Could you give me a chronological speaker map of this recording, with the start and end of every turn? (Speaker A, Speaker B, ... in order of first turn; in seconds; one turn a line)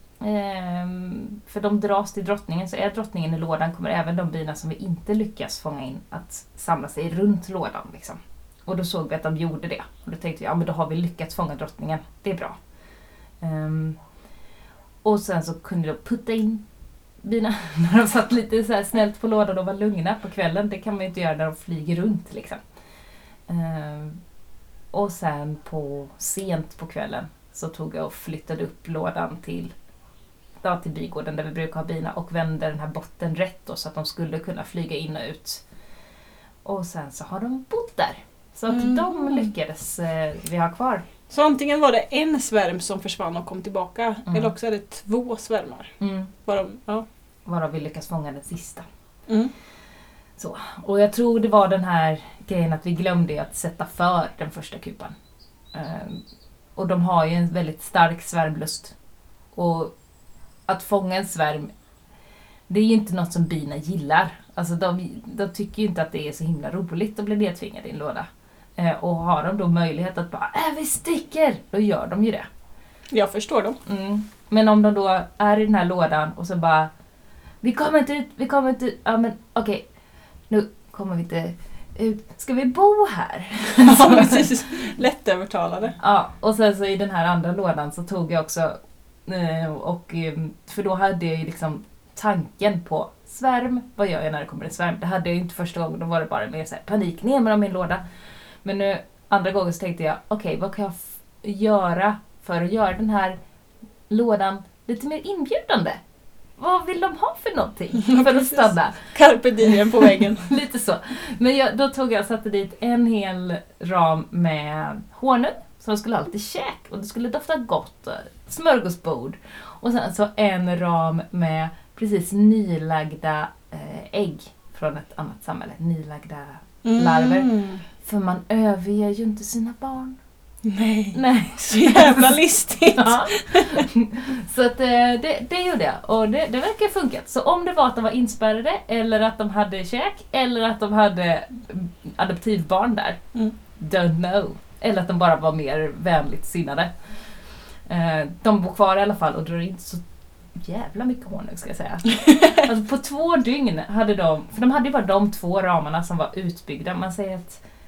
Speaker A: 0.2-12.6
Speaker A: 13.4-14.0
Speaker A: 15.0-16.6
Speaker A: 17.2-22.6
Speaker A: 23.5-24.2
Speaker A: 24.9-29.7
Speaker A: 30.6-35.6
Speaker A: 36.6-41.0
Speaker B: 38.7-39.5
Speaker B: 41.3-47.0
Speaker A: 44.3-44.5
Speaker A: 46.0-46.3
Speaker A: 47.5-48.8
Speaker B: 49.3-49.5
Speaker A: 50.4-55.1
Speaker A: 55.7-56.2
Speaker A: 56.8-58.9
Speaker A: 59.5-59.9
Speaker A: 60.7-61.7
Speaker A: 62.7-72.5
Speaker B: 73.1-73.8
Speaker A: 73.8-76.9
Speaker A: 77.6-79.8
Speaker A: 80.5-84.5
Speaker B: 83.7-86.0
Speaker A: 86.0-98.0
Speaker A: 98.6-103.4
Speaker A: 104.1-106.0
Speaker A: 106.6-109.0
Speaker B: 108.0-110.5
Speaker A: 109.7-130.2
Speaker B: 126.8-127.8
Speaker B: 130.6-133.8
Speaker A: 131.1-143.2
Speaker A: 143.8-146.9
Speaker A: 147.9-150.0
Speaker A: 150.6-157.6